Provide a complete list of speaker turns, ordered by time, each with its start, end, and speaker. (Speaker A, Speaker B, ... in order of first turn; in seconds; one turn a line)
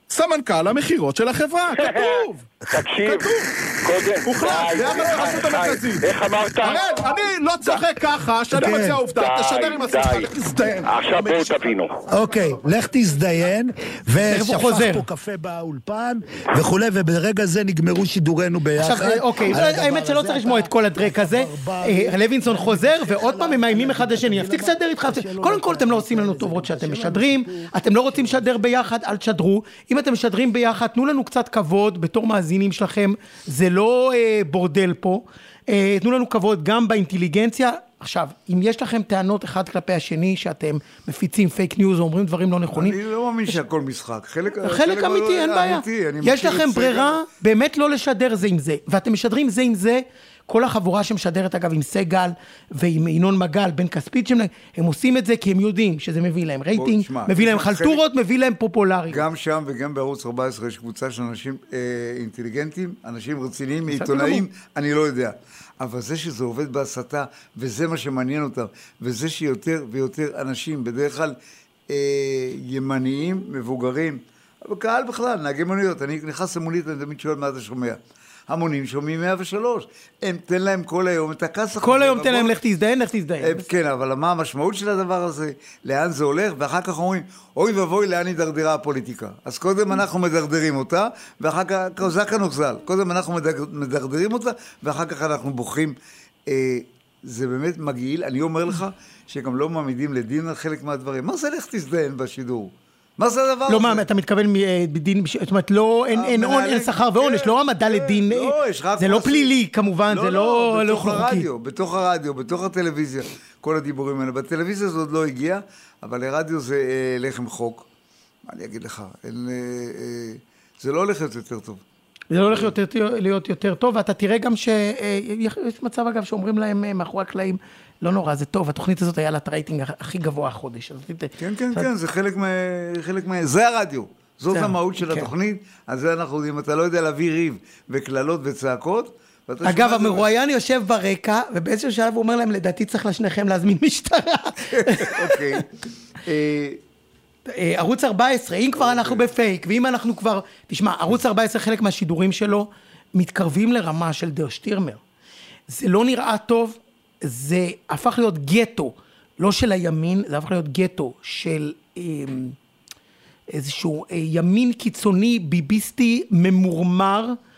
Speaker A: 0.1-11.6
Speaker B: 1.7-7.8
Speaker C: 8.5-9.1
Speaker B: 9.1-12.0
Speaker C: 12.1-28.4
Speaker D: 14.3-15.0
Speaker D: 18.8-43.0
Speaker E: 42.7-47.3
Speaker D: 44.6-59.2
Speaker E: 56.7-58.0
Speaker E: 59.1-71.4
Speaker D: 63.9-64.5
Speaker E: 71.9-82.6
Speaker D: 81.8-83.7
Speaker E: 83.4-96.0
Speaker E: 96.5-104.0
Speaker D: 103.7-111.5
Speaker E: 106.1-109.5
Speaker E: 110.1-117.9
Speaker E: 118.5-121.8
Speaker D: 122.3-131.9
Speaker E: 131.4-140.3
Speaker D: 134.5-135.3
Speaker D: 139.6-145.6
Speaker E: 144.7-145.7
Speaker E: 146.2-146.8
Speaker D: 147.5-155.0
Speaker E: 148.8-149.2
Speaker D: 155.7-162.6
Speaker D: 163.5-167.4